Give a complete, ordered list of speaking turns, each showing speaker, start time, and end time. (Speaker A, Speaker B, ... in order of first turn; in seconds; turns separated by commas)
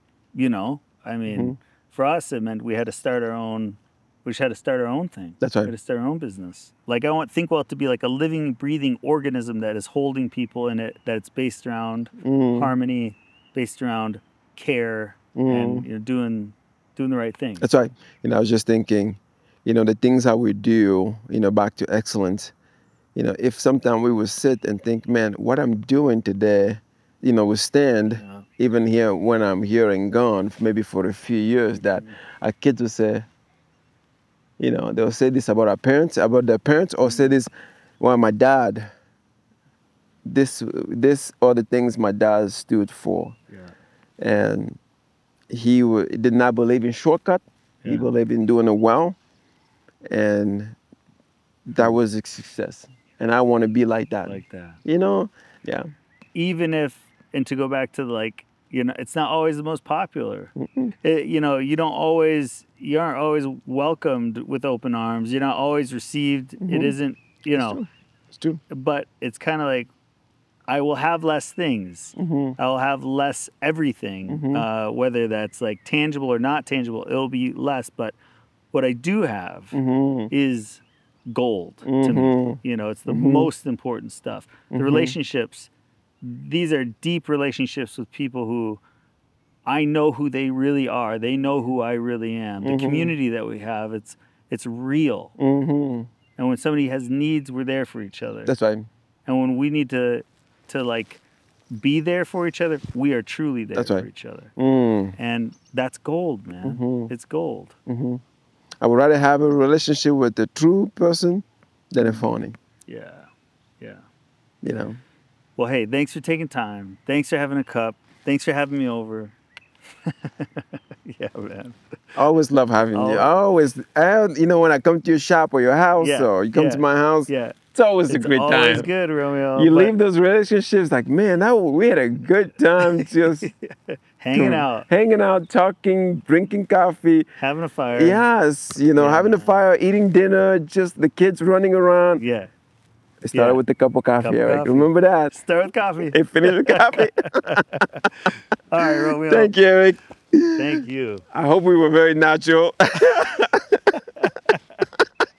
Speaker A: 0.3-17.7, Speaker B: 1.3-1.6, Speaker B: 5.4-5.7, Speaker B: 12.2-12.7, Speaker B: 15.3-15.9, Speaker B: 17.6-22.5, Speaker B: 23.1-33.3, Speaker A: 28.2-28.5, Speaker A: 31.8-32.1, Speaker B: 34.6-38.9, Speaker B: 40.2-43.4, Speaker A: 43.5-43.8, Speaker B: 44.2-44.8, Speaker B: 45.5-49.2, Speaker B: 50.1-50.8, Speaker B: 51.7-55.9, Speaker A: 54.2-54.8, Speaker A: 56.4-67.8, Speaker B: 60.6-60.9, Speaker B: 66.6-67.0, Speaker B: 67.5-68.6, Speaker A: 68.7-69.9, Speaker A: 70.7-78.2, Speaker B: 72.2-72.6, Speaker B: 74.3-74.7, Speaker A: 78.7-79.8, Speaker B: 79.7-80.3, Speaker A: 80.3-88.8, Speaker B: 81.8-83.5, Speaker B: 84.7-85.2, Speaker A: 89.7-95.3, Speaker B: 92.6-93.1, Speaker B: 95.4-96.1, Speaker A: 96.4-98.5, Speaker B: 98.5-98.9, Speaker A: 99.3-101.2, Speaker A: 101.7-104.5, Speaker B: 103.7-105.2, Speaker A: 105.2-107.8, Speaker B: 106.6-107.1, Speaker B: 107.9-108.2, Speaker B: 108.8-112.6, Speaker A: 112.0-112.3, Speaker A: 112.9-113.3, Speaker A: 113.8-114.0, Speaker B: 114.6-115.0, Speaker A: 115.6-119.4, Speaker A: 120.1-121.8, Speaker B: 122.2-128.9, Speaker A: 122.9-123.3, Speaker A: 126.0-129.9, Speaker B: 129.6-133.5, Speaker A: 132.8-134.9, Speaker B: 134.3-137.3, Speaker A: 137.4-138.2, Speaker B: 138.0-142.2, Speaker A: 138.9-139.6, Speaker A: 142.2-142.5, Speaker B: 143.2-145.3, Speaker A: 143.3-143.6, Speaker A: 144.2-149.5, Speaker B: 146.1-147.8, Speaker B: 148.8-150.8, Speaker A: 150.6-151.2, Speaker B: 151.3-153.9, Speaker A: 154.0-154.8